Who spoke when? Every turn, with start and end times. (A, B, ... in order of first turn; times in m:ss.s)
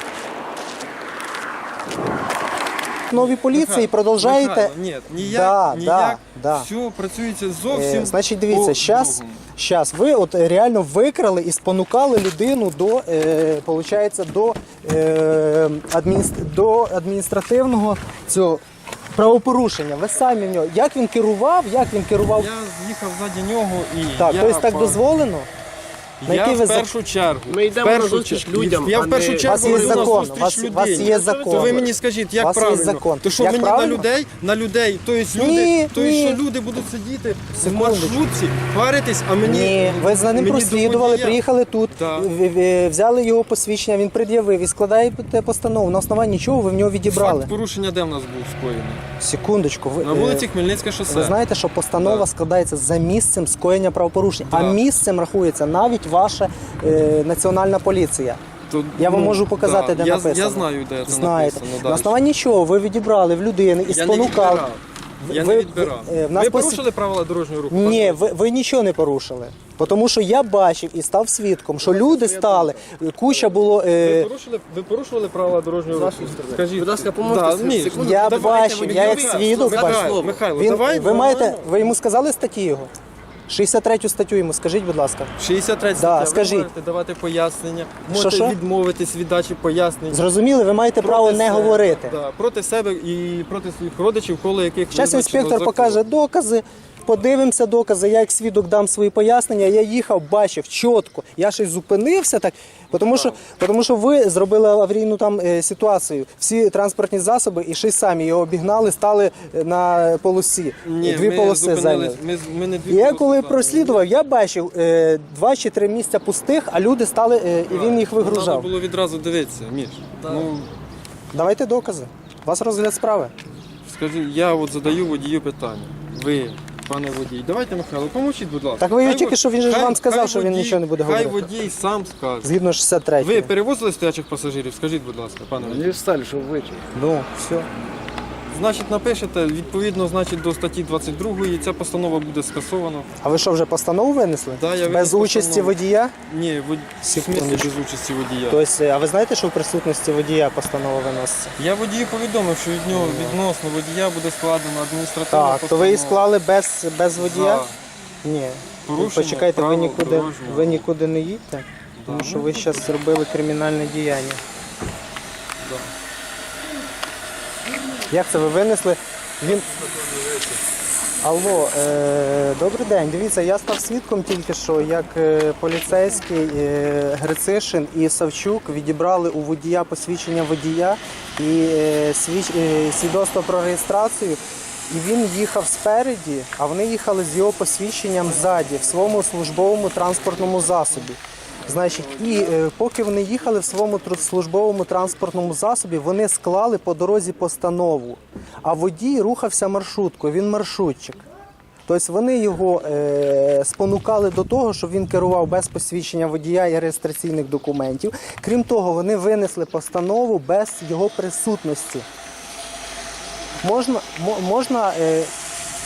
0:03.1-0:06.7 A
0:03.1-0:09.4 B
0:07.7-0:18.6 A
0:19.1-0:22.5 A
0:22.3-0:25.0 B
0:24.2-0:25.5 A
0:26.2-0:42.3 B
0:26.2-0:26.9 A
0:27.5-0:30.2 C
0:29.4-0:31.8 A
0:30.9-0:32.0 C
0:32.4-0:34.1 A
0:35.3-0:36.4 A
0:37.6-0:38.2 A
0:39.4-0:47.5 A
0:47.0-0:49.0 B
0:49.2-0:50.5 A
0:50.0-0:51.4 B
0:51.1-0:58.4 A
0:52.0-0:52.2 B
0:54.5-0:54.8 B
0:58.7-1:02.2 B
0:59.0-1:04.7 A
1:03.9-1:08.3 B
1:05.2-1:06.9 A
1:07.7-1:14.3 A
1:11.8-1:12.8 C
1:14.0-1:21.7 B
1:15.9-1:20.4 C
1:17.9-1:22.9 A
1:23.5-1:25.3 A
1:25.4-1:30.2 B
1:26.0-1:26.7 A
1:28.1-1:28.6 A
1:30.1-1:32.1 A
1:31.0-1:36.0 B
1:34.9-1:52.2 A
1:42.9-1:43.4 B
1:50.8-1:54.0 B
1:52.9-1:58.7 A
1:57.7-2:00.7 B
2:01.3-2:03.3 A
2:03.8-2:12.5 B
2:08.8-2:11.4 A
2:12.4-2:13.5 A
2:13.2-2:15.9 B
2:15.6-2:16.8 C
2:16.9-2:17.7 A
2:18.5-2:23.1 B
2:23.2-2:26.1 A
2:24.6-2:28.6 B
2:27.0-2:27.7 A
2:28.5-2:31.5 A
2:31.6-2:36.2 B
2:32.9-2:33.4 A
2:35.3-2:37.7 A
2:37.2-2:37.8 B
2:38.2-2:44.4 A
2:38.8-2:40.9 B
2:42.0-2:42.9 B
2:45.6-2:45.9 B
2:48.1-2:49.6 A
2:51.2-3:21.2 A
3:21.8-3:32.0 A
3:33.6-3:35.3 A